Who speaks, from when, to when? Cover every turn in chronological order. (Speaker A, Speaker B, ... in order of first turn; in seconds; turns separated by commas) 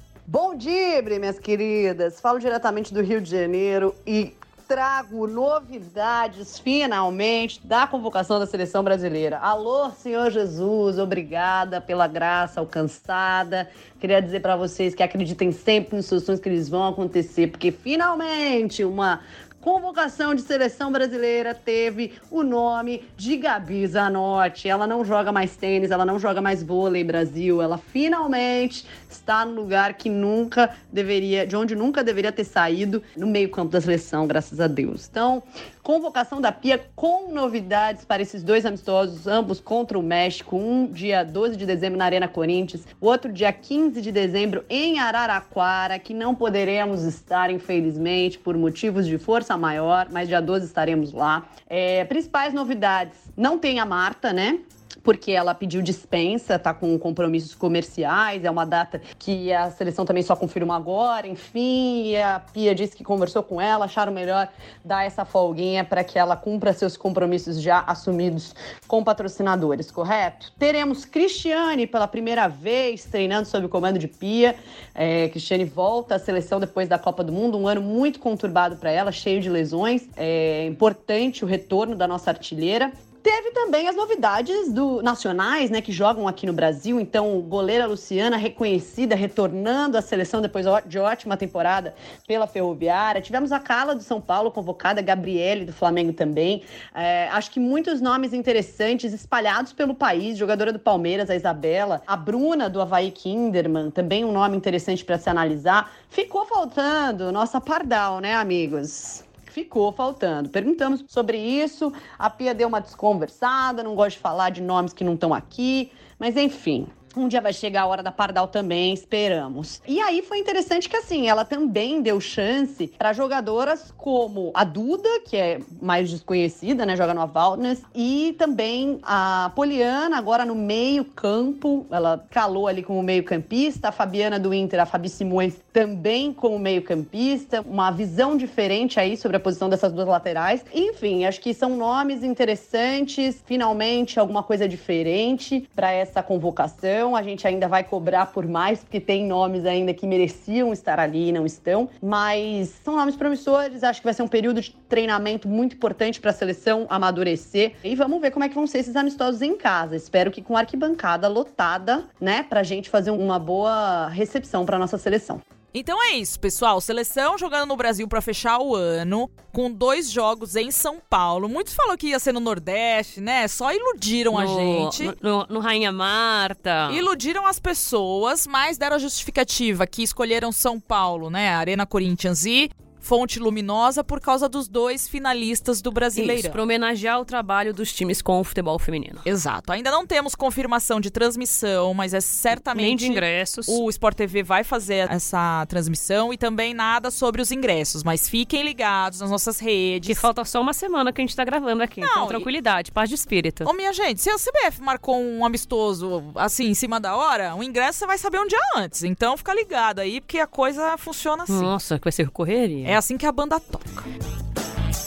Speaker A: 0.3-165.4, Speaker B: 165.7-175.1, Speaker C: 174.3-177.1, Speaker B: 176.9-186.6, Speaker C: 186.1-189.3, Speaker B: 189.2-200.2, Speaker C: 192.7-193.8, Speaker C: 200.1-203.7, Speaker B: 202.0-202.5, Speaker B: 203.6-211.7, Speaker C: 211.5-213.0, Speaker B: 212.8-214.1